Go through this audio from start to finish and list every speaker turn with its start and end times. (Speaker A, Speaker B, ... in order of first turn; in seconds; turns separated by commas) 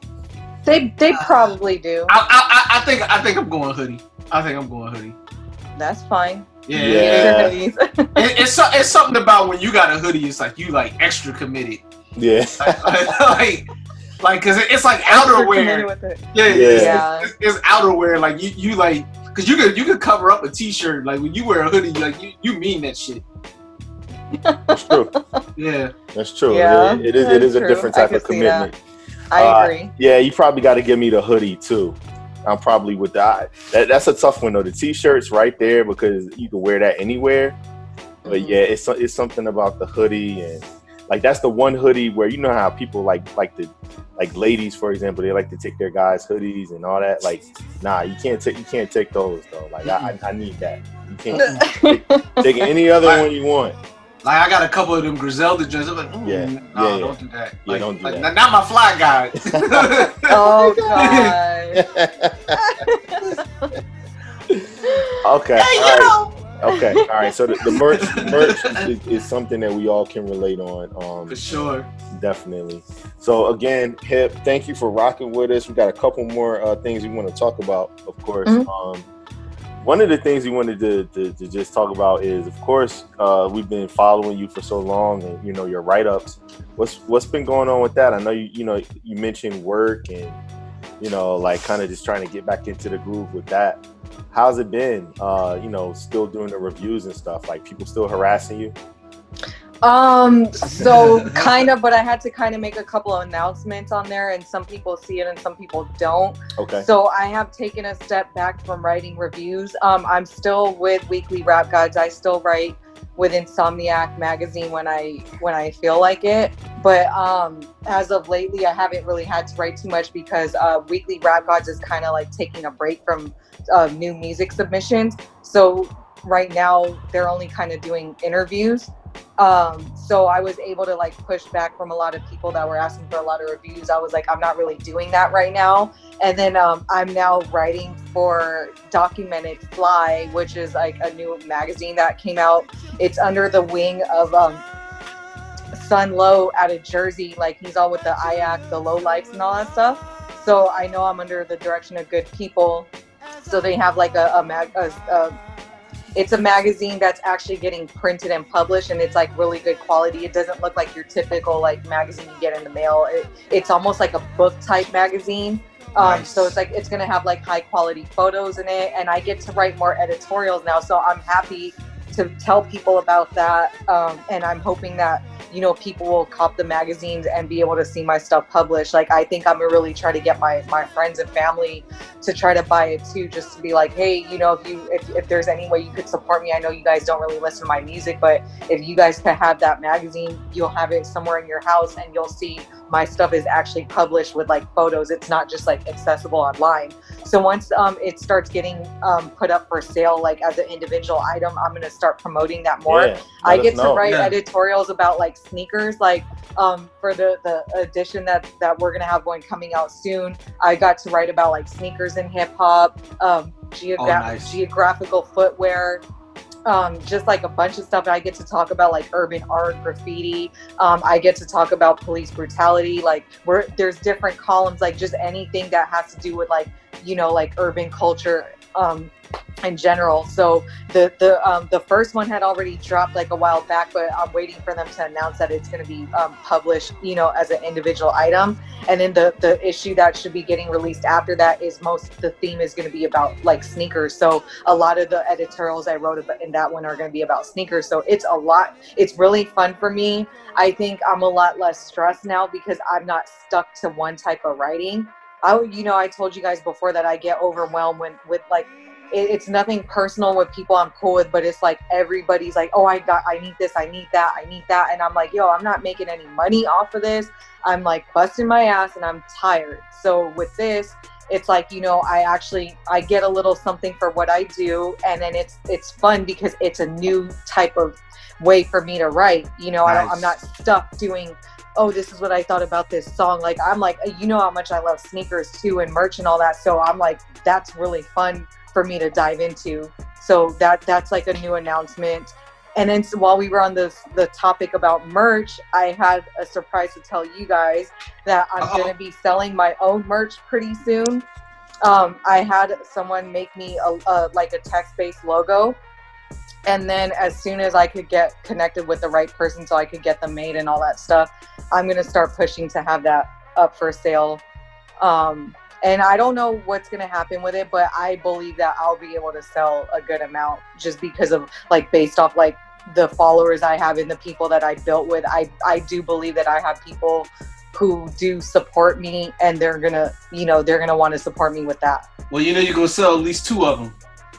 Speaker A: 0.6-2.1, Speaker B: 1.1-1.5, Speaker B: 2.1-5.2, Speaker A: 5.8-6.5, Speaker B: 6.7-7.5, Speaker C: 6.7-7.5, Speaker A: 7.0-8.3, Speaker B: 8.2-11.8, Speaker C: 12.2-13.0, Speaker B: 12.6-13.7, Speaker B: 14.2-23.2, Speaker A: 15.1-17.3, Speaker C: 16.4-17.0, Speaker A: 24.4-25.2, Speaker C: 24.7-25.1, Speaker B: 25.6-25.9, Speaker C: 26.1-28.8, Speaker A: 26.5-28.7, Speaker A: 29.3-29.9, Speaker C: 29.3-37.6, Speaker A: 38.2-38.6, Speaker C: 38.2-53.8, Speaker B: 49.8-50.1, Speaker A: 51.3-52.6, Speaker B: 53.0-53.3, Speaker B: 54.2-61.4, Speaker C: 56.2-58.3, Speaker C: 59.4-60.1, Speaker A: 60.3-61.8, Speaker C: 61.7-62.6, Speaker A: 62.6-63.4, Speaker C: 65.2-71.4, Speaker B: 65.5-66.4, Speaker A: 66.7-67.0, Speaker B: 67.8-68.9, Speaker B: 71.3-71.9, Speaker C: 72.1-79.0, Speaker C: 79.8-90.4, Speaker C: 91.0-98.7, Speaker A: 99.8-144.6, Speaker B: 100.8-101.4, Speaker C: 106.6-106.9, Speaker A: 145.7-152.9, Speaker A: 153.4-155.3, Speaker A: 156.1-216.0, Speaker B: 165.9-166.6, Speaker C: 202.9-204.1, Speaker B: 204.1-204.3, Speaker B: 214.0-214.6, Speaker A: 216.7-229.1, Speaker A: 229.6-301.2, Speaker B: 279.8-280.3, Speaker B: 298.6-298.9, Speaker A: 301.8-305.8, Speaker A: 306.7-314.4, Speaker A: 315.0-332.0, Speaker B: 332.3-333.9